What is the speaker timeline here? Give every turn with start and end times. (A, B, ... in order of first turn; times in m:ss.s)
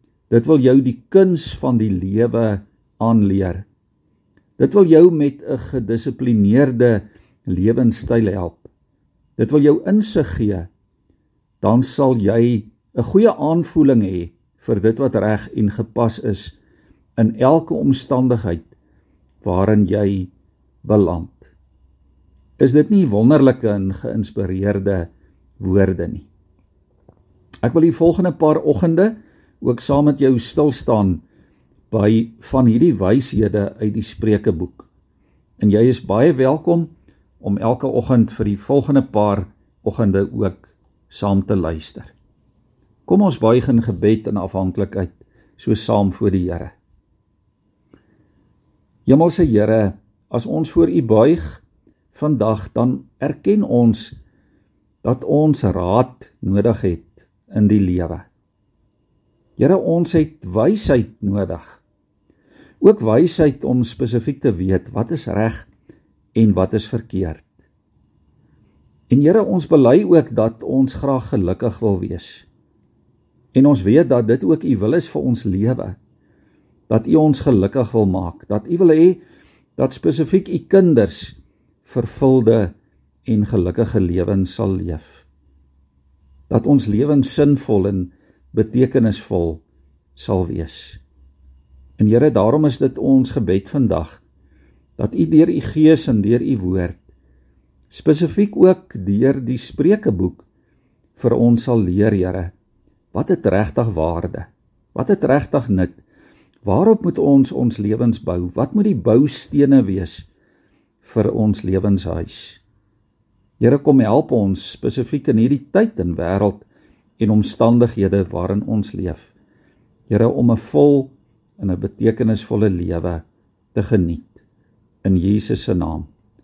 0:00.3-0:03.6 A
0:04.6-0:08.7 A
0:09.4-0:10.7 A
0:11.6-0:16.5 A
0:17.2-0:18.7 A
0:19.4-0:20.3 A
0:20.8-0:21.5 A
0:22.6-0:25.1 A
0:25.6-0:26.3 A
0:27.6-0:31.2 A
0:31.9-0:34.9 A
0:35.6-0:42.1 A
0:43.1-0:46.7 A
0:49.0-0:54.2 A
0:55.0-0:58.3 A
0:59.6-1:01.8 A
1:02.8-1:05.7 A
1:06.3-1:07.5 A
1:09.1-1:12.4 A
1:13.5-1:16.0 A
1:16.9-1:19.2 A
1:19.8-1:25.2 A
1:26.5-1:29.6 A
1:30.1-1:31.0 A
1:32.0-1:34.2 A
1:35.0-1:37.0 A
1:37.9-1:40.4 A
1:41.2-1:42.5 A
1:43.1-1:46.0 A
1:46.6-1:50.3 A
1:51.0-1:52.6 A
1:53.6-1:56.6 A
1:57.2-1:59.3 A
2:00.1-2:04.4 A
2:05.0-2:06.1 A